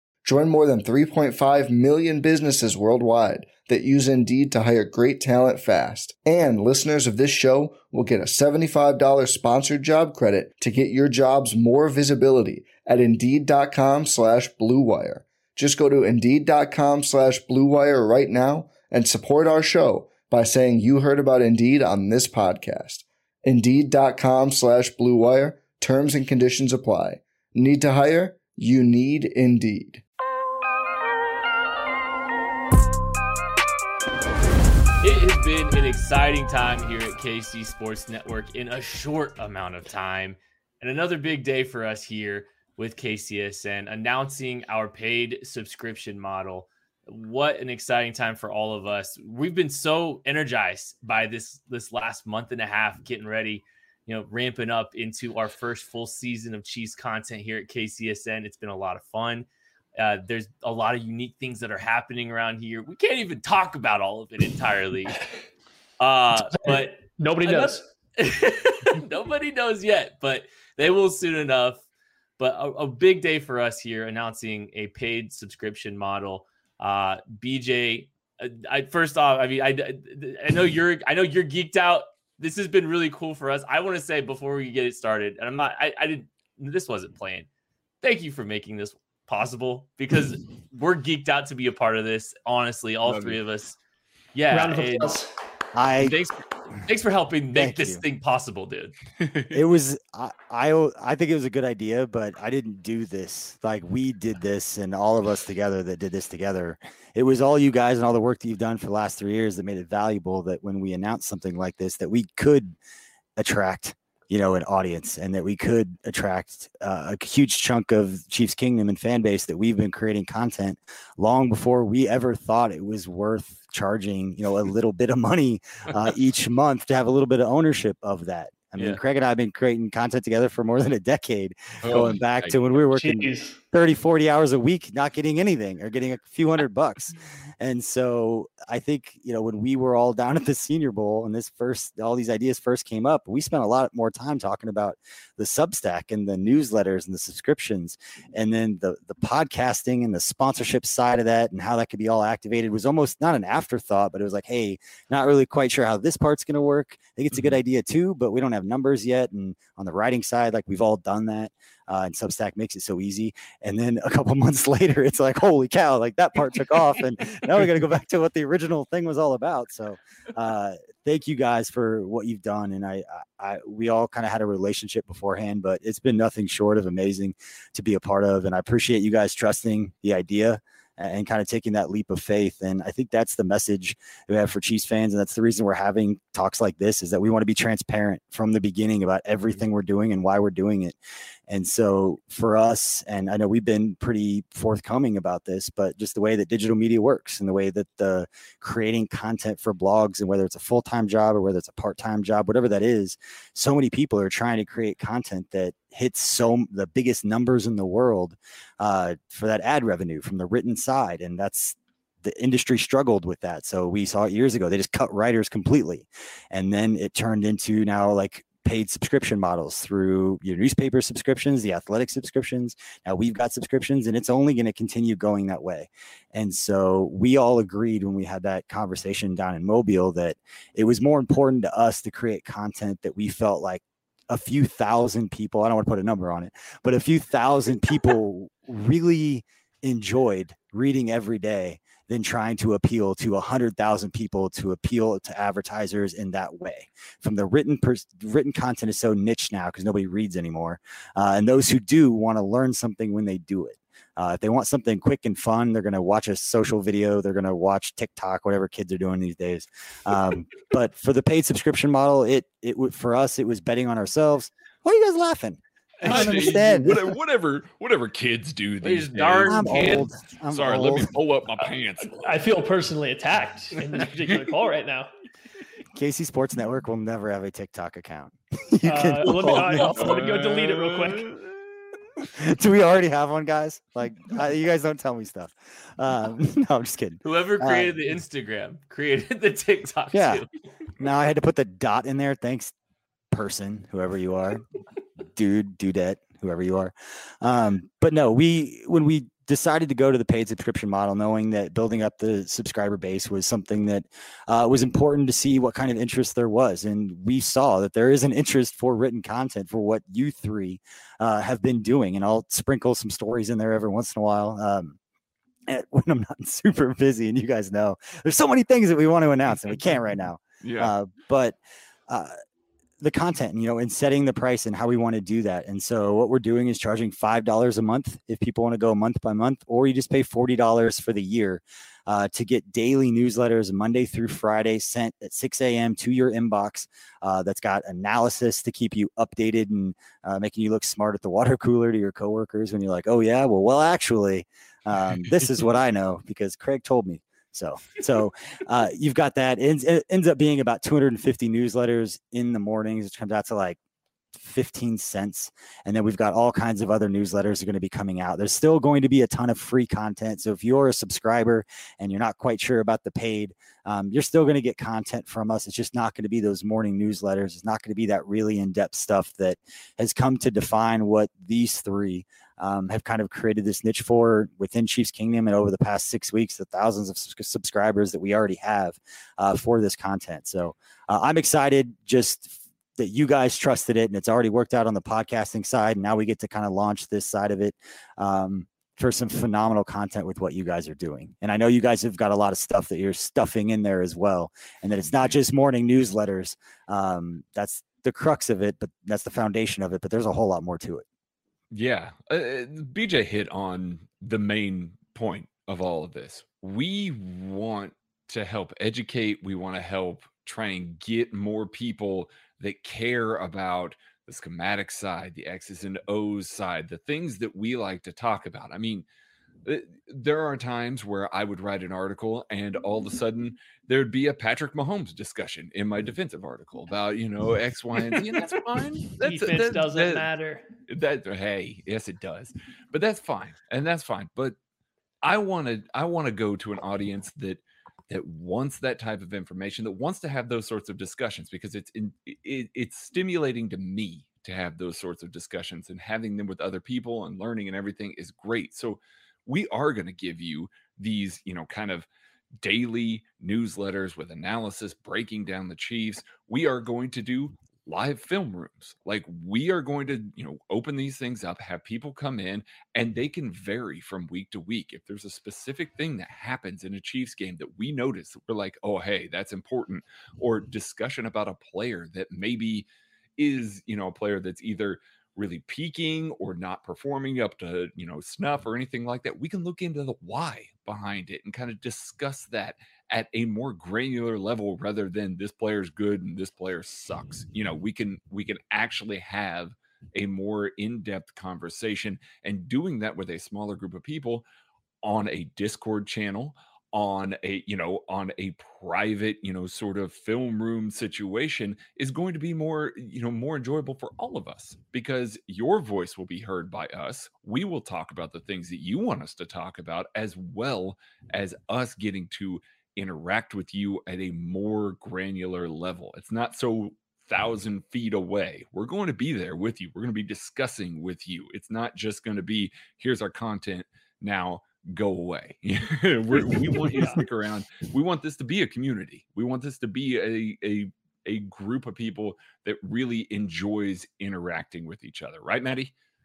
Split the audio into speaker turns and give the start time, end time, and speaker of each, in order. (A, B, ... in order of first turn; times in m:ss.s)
0:00.2-0:30.0 A
0:35.0-1:05.2 B
1:06.0-1:11.8 B
1:06.6-1:07.8 C
1:12.4-1:27.5 B
1:28.0-1:33.8 B
1:33.0-1:33.4 D
1:34.3-1:35.2 B
1:34.5-1:35.3 C
1:35.7-1:36.2 E
1:36.0-1:36.4 D
1:36.8-1:38.9 B
1:37.5-1:38.0 E
1:39.2-1:39.6 D
1:39.5-1:52.8 E
1:53.4-3:11.0 E
2:08.8-2:09.0 B
2:11.8-2:12.8 D
2:12.9-2:13.6 C
3:11.5-4:27.0 E
4:26.0-4:32.6 D
4:28.8-4:30.0 B
4:29.4-4:31.1 E
4:31.6-4:35.1 C
4:33.8-4:34.4 D
4:36.0-4:40.0 E
4:38.8-4:41.3 C
4:39.4-4:41.6 D
4:42.3-4:47.9 E
4:47.2-4:50.5 B
4:50.1-4:50.4 E
4:51.0-4:52.7 E
4:53.3-4:54.6 E
4:55.3-5:15.0 E
5:15.7-5:22.3 E
5:20.6-5:20.9 D
5:23.0-5:53.8 E
5:54.3-6:41.0 E
6:41.7-6:59.0 D
6:59.6-7:10.3 D
7:09.2-7:10.6 C
7:10.9-7:14.6 D
7:15.2-7:32.1 D
7:32.6-8:14.4 D
8:15.0-8:55.9 D
8:46.3-8:47.2 C